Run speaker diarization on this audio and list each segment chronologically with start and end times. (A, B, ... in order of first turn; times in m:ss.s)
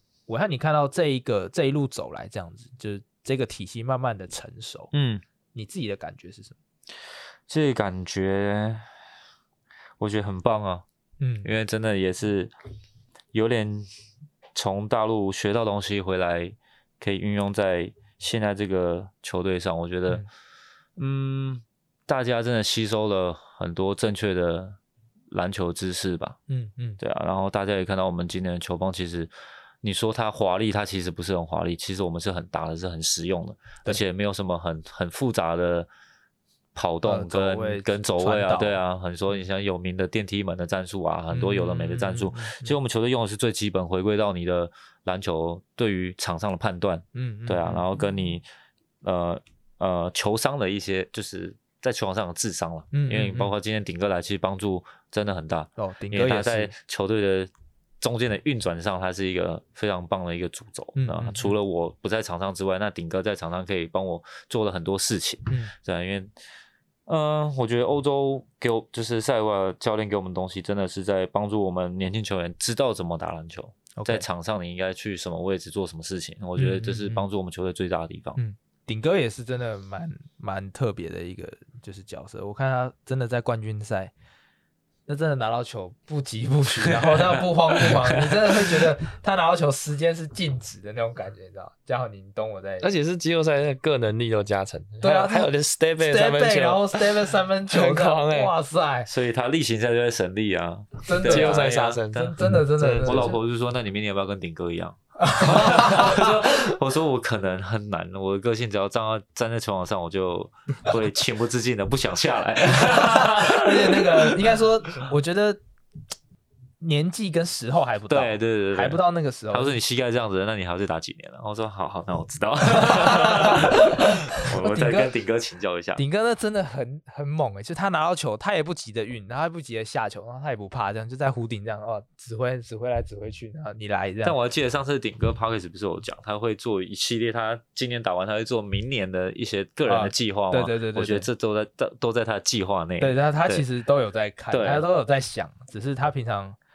0:00.3-0:04.9 A
0:04.9-0:05.2 B
0:05.5-0:06.6 A
0:07.5-0:08.9 B
0:10.0-0:10.8 B
0:11.2-0:11.5 A
0:11.4-0:12.5 B
0:13.3-0:13.9 B
0:14.6-0:20.2 B
0:21.0-0:24.8 B
0:25.3-0:26.4 B
0:26.5-0:27.0 A
0:27.0-0:35.9 B
0:36.7-0:48.4 B
0:37.0-0:38.8 A
0:41.3-0:42.7 A
0:47.1-0:48.0 A
0:49.0-1:06.3 B
0:52.9-0:53.5 A
0:55.8-0:56.7 A
1:01.0-1:01.6 A
1:07.1-1:18.4 B
1:14.0-1:14.2 A
1:16.6-1:17.2 A
1:18.4-1:24.1 A
1:25.1-1:32.9 A
1:27.0-1:28.8 B
1:32.8-1:38.5 C
1:35.0-1:39.1 A
1:39.1-1:42.3 B
1:41.0-1:43.4 A
1:41.2-1:43.3 C
1:43.0-1:54.4 B
1:45.2-1:46.3 A
1:52.8-1:55.6 A
1:56.8-1:59.8 A
1:58.1-2:06.0 B
2:02.7-2:05.1 A
2:06.0-2:14.4 A
2:14.2-2:23.6 B
2:19.9-2:21.3 A
2:23.0-2:26.6 A
2:24.5-2:24.8 B